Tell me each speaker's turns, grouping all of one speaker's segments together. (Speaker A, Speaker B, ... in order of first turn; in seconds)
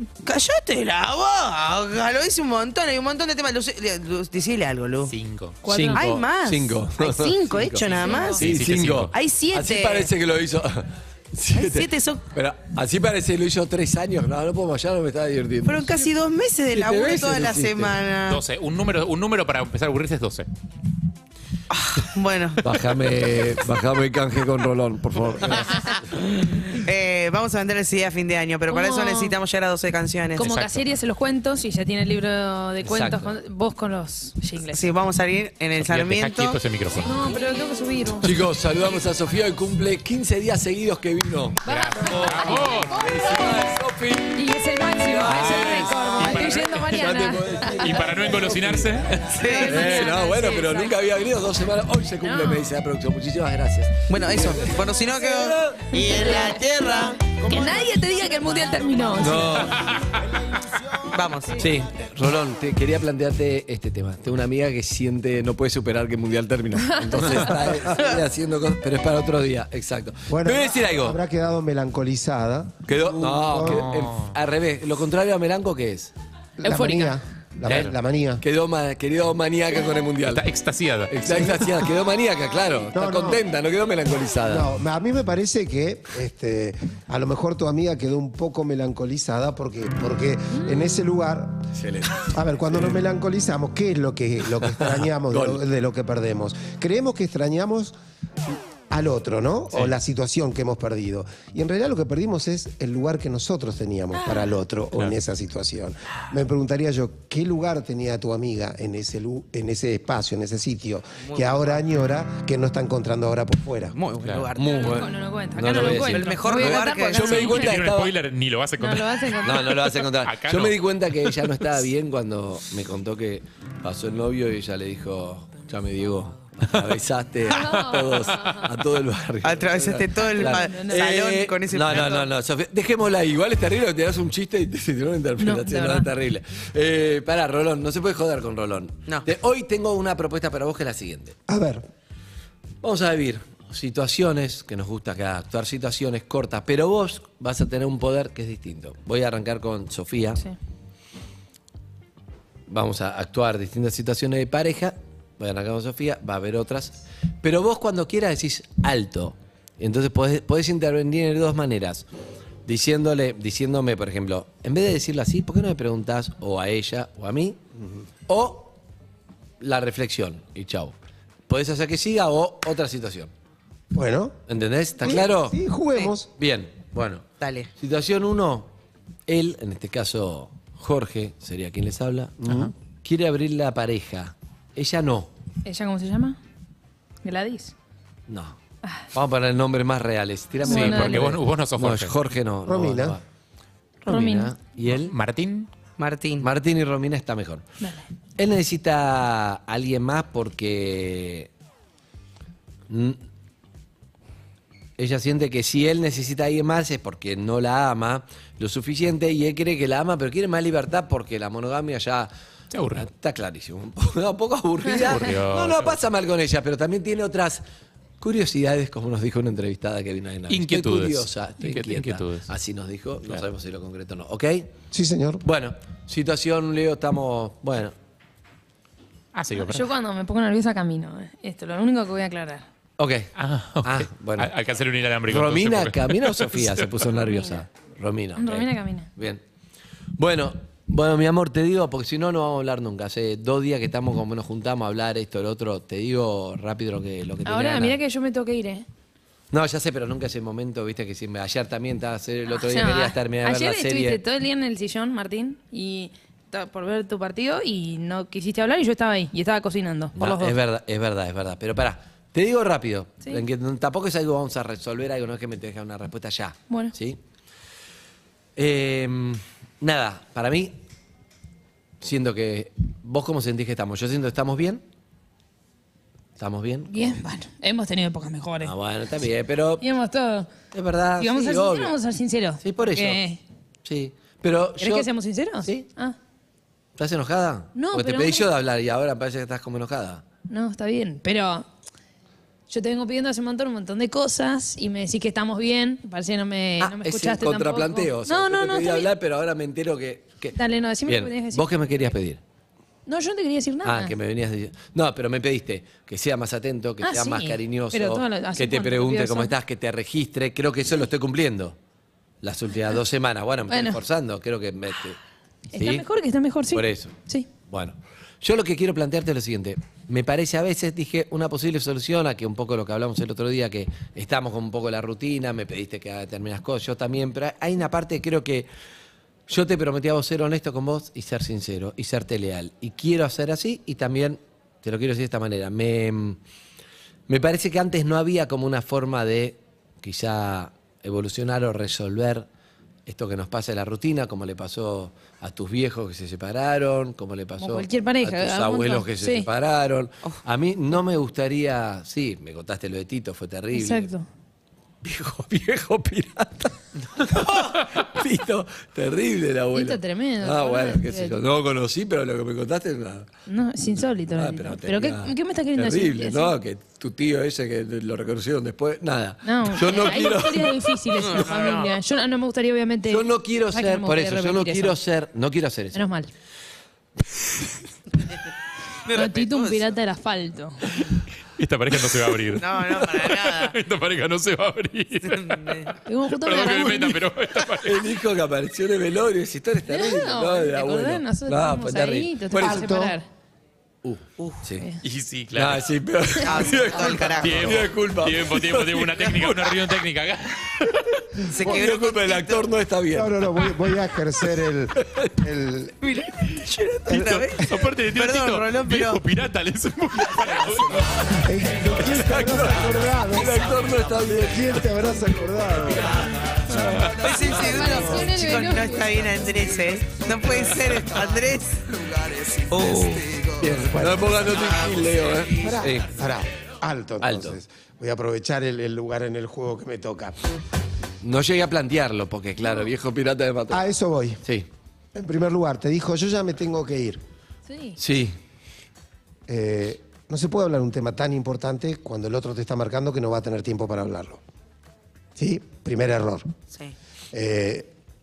Speaker A: 0.2-5.1, 5.9-8.5, 9.1-10.1, 11.5-12.3, 15.7-18.4, 21.7-22.6, 26.7-30.6, 34.7-36.6, 49.3-50.0, 54.1-57.2, 61.1-61.6, 67.8-68.2, 111.2-111.8, 113.9-115.1, 115.7-117.6, 129.4-132.3, 177.4-177.7, 196.0-196.5, 369.9-370.2, 371.2-371.9, 379.1-379.9, 382.5-383.8, 385.2-385.9, 396.4-397.9, 401.4-402.7, 406.0-409.2, 417.2-422.0, 422.7-423.5
Speaker B: 5.1-5.6, 8.2-9.2, 18.3-20.5, 30.4-30.9, 35.8-37.2, 41.7-43.1, 46.2-49.2, 59.8-60.1, 73.6-74.3, 77.7-77.9, 80.3-81.3, 117.3-120.8, 182.4-182.7, 190.6-192.1, 195.0-195.7, 212.7-213.1, 214.9-216.0, 220.5-222.5, 229.3-229.8, 233.4-237.0, 357.4-357.7, 381.6-385.6, 386.3-388.1, 395.0-395.9, 397.3-401.2, 407.1-411.1, 416.8-417.1
Speaker C: 5.6-16.1, 16.7-18.0, 22.6-26.1, 32.8-33.4, 38.2-44.5, 45.0-56.6, 59.2-59.9, 61.6-71.2, 72.9-76.1, 78.4-80.5, 81.1-84.7, 91.8-92.3, 94.7-95.6, 114.5-118.1, 119.4-141.4, 142.8-150.4, 152.7-162.1, 162.7-167.6, 168.3-168.8, 169.6-170.9, 171.5-173.3, 174.5-175.6, 176.4-177.2, 177.8-178.7, 179.3-185.3, 188.3-188.6, 189.1-193.2, 194.0-195.2, 196.4-197.6, 198.4-201.5, 202.9-203.2, 205.0-212.3, 213.0-217.6, 218.2-224.7, 225.4-227.9, 233.0-233.3, 233.8-234.5, 235.3-239.4, 240.2-248.0, 249.5-254.2, 260.2-267.2, 268.6-270.8, 272.0-274.8, 276.4-277.2, 278.6-279.9, 280.7-281.9, 282.6-283.2, 283.9-285.1, 285.6-285.9, 287.0-290.2, 296.8-302.4, 303.8-311.8, 312.4-315.2, 315.8-316.1, 316.7-317.1, 317.7-328.7, 329.5-336.4, 337.3-342.5, 343.1-354.1, 355.0-363.3, 364.3-371.4, 373.1-376.0, 386.7-387.2, 387.8-392.9, 394.0-394.9, 395.5-399.8, 401.5-403.7, 405.0-405.3, 411.8-414.9, 415.9-416.2, 416.8-417.1, 420.6-420.9, 422.7-426.2, 427.2-427.6, 431.2-433.8, 438.0-438.4
Speaker D: 5.7-6.0, 8.0-8.4, 28.7-29.4, 30.4-34.9, 37.0-38.3, 41.7-43.8, 44.3-48.4, 49.4-51.0, 52.2-52.7, 56.0-56.6, 57.5-59.7, 66.9-67.5, 76.6-77.2, 114.7-117.8, 118.8-120.0, 127.5-128.6, 130.2-131.0, 135.4-136.1, 185.7-186.4, 187.2-187.7, 190.7-191.3, 194.1-194.5, 229.5-232.7, 238.4-239.1, 247.4-248.8, 252.5-260.6, 276.9-278.7, 279.8-280.5, 281.2-283.4, 284.8-286.2, 287.7-288.5, 290.5-291.7, 292.7-299.1, 300.6-301.6, 303.1-304.1, 307.0-309.5, 313.7-314.0, 315.7-317.5, 347.6-349.5, 353.7-354.3, 359.7-361.4, 363.5-366.6, 369.4-375.0, 375.9-376.3, 379.1-380.9, 386.1-387.2, 389.9-393.2, 417.5-419.4, 437.7-438.0
Speaker E: 57.2-59.4, 60.0-61.3, 70.3-73.8, 76.6-78.4, 81.3-81.6, 82.9-83.4, 84.5-91.6, 92.2-98.0, 98.5-114.0, 141.5-141.8, 173.9-174.4, 175.0-176.3, 192.7-193.2, 224.9-225.4, 392.6-393.2, 403.1-405.9, 411.3-416.2, 423.9-424.4, 425.6-430.4, 433.7-434.4, 435.1-437.2, 439.5-444.4, 445.4-446.5, 447.3-447.9